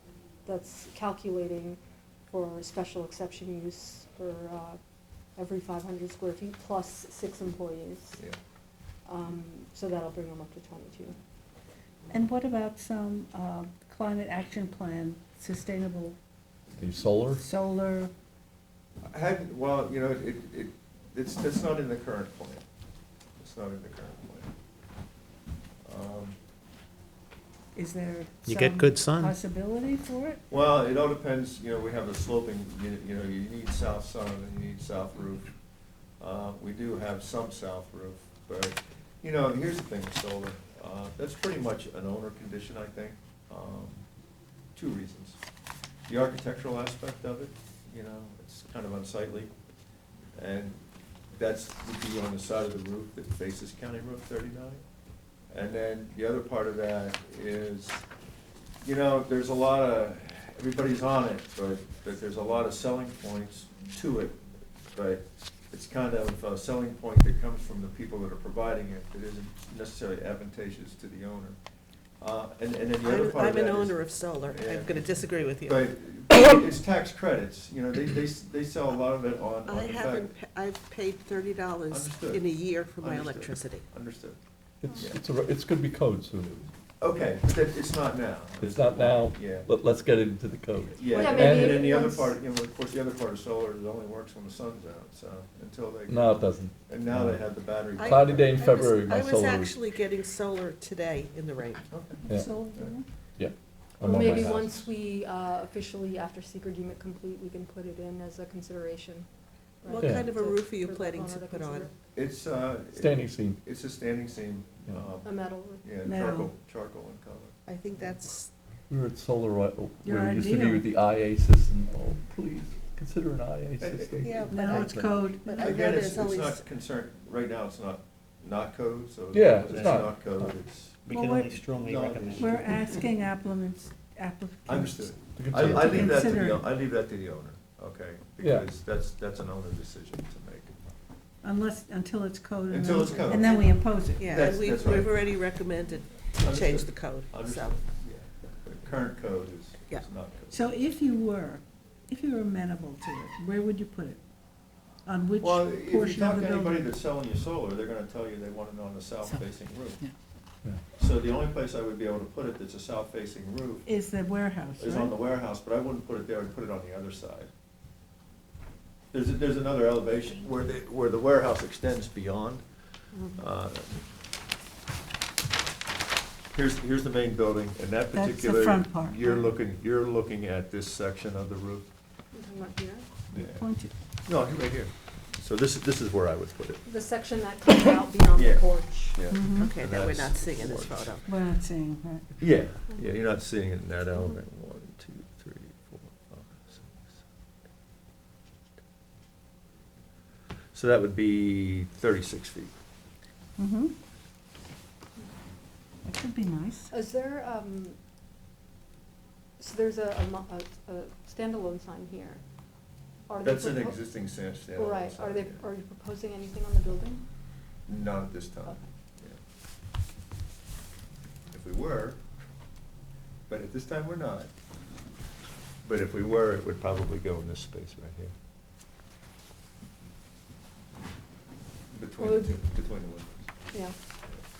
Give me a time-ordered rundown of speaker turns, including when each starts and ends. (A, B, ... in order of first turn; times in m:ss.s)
0:00.4-0:04.8 A
0:05.4-0:08.2 A
0:09.0-0:11.2 A
0:12.1-0:16.2 B
0:16.8-0:17.4 C
0:17.3-0:18.1 B
0:19.1-0:22.6 D
0:23.4-0:24.5 D
0:25.8-0:26.4 D
0:27.7-0:30.4 B
0:28.4-0:29.4 E
0:30.5-0:35.5 D
0:36.2-0:44.0 D
0:44.7-0:45.4 D
0:46.1-0:49.5 D
0:50.4-0:50.8 D
0:51.3-0:54.8 D
0:55.5-0:58.0 D
0:58.8-1:04.4 D
1:04.9-1:11.6 D
1:12.2-1:20.3 D
1:13.0-1:15.8 F
1:19.6-1:23.8 F
1:21.9-1:24.4 D
1:24.8-1:26.7 C
1:24.9-1:25.2 D
1:27.0-1:29.7 D
1:28.6-1:31.9 C
1:30.9-1:36.3 D
1:31.1-1:32.3 A
1:36.1-1:39.8 C
1:36.9-1:38.6 D
1:37.9-1:41.9 F
1:41.9-1:42.9 D
1:42.2-1:42.5 C
1:42.3-1:43.0 B
1:43.4-1:44.8 C
1:44.0-1:44.7 D
1:44.0-1:49.3 A
1:49.8-1:52.0 A
1:49.8-1:51.9 F
1:50.0-1:50.2 C
1:52.1-1:57.5 D
1:52.9-1:53.6 C
1:55.2-1:55.8 A
1:56.0-1:56.5 B
1:57.6-1:58.5 F
1:58.9-2:04.5 C
2:00.0-2:00.9 B
2:03.8-2:04.3 D
2:04.2-2:06.6 F
2:04.5-2:05.9 B
2:04.8-2:05.2 E
2:05.6-2:11.0 D
2:09.3-2:10.5 C
2:09.7-2:10.1 E
2:11.0-2:13.0 E
2:11.2-2:11.6 B
2:11.8-2:12.8 D
2:12.4-2:16.7 B
2:14.7-2:20.7 D
2:15.3-2:16.2 C
2:18.4-2:18.6 C
2:21.4-2:24.5 B
2:22.7-2:23.7 D
2:23.2-2:27.8 F
2:24.2-2:25.2 D
2:26.4-2:30.6 D
2:30.5-2:34.2 B
2:35.0-2:36.9 B
2:35.4-2:40.0 D
2:41.0-2:43.8 D
2:43.8-2:45.2 B
2:44.8-2:47.5 D
2:49.1-2:54.0 D
2:56.5-3:01.9 D
2:58.1-2:59.6 B
3:02.3-3:03.1 A
3:03.3-3:06.8 D
3:03.4-3:03.9 B
3:06.8-3:09.2 A
3:08.3-3:11.1 D
3:09.3-3:09.7 B
3:09.6-3:11.3 F
3:11.2-3:12.3 B
3:12.4-3:17.2 D
3:20.7-3:22.7 D
3:23.6-3:23.9 B
3:26.0-3:26.9 B
3:26.9-3:28.0 A
3:29.6-3:32.4 A
3:33.3-3:34.0 A
3:33.4-3:35.6 D
3:34.7-3:37.2 A
3:37.9-3:39.4 D
3:41.5-3:42.2 D
3:43.5-3:44.5 D
3:45.8-3:48.3 D
3:51.9-3:53.5 D
3:52.2-3:52.6 A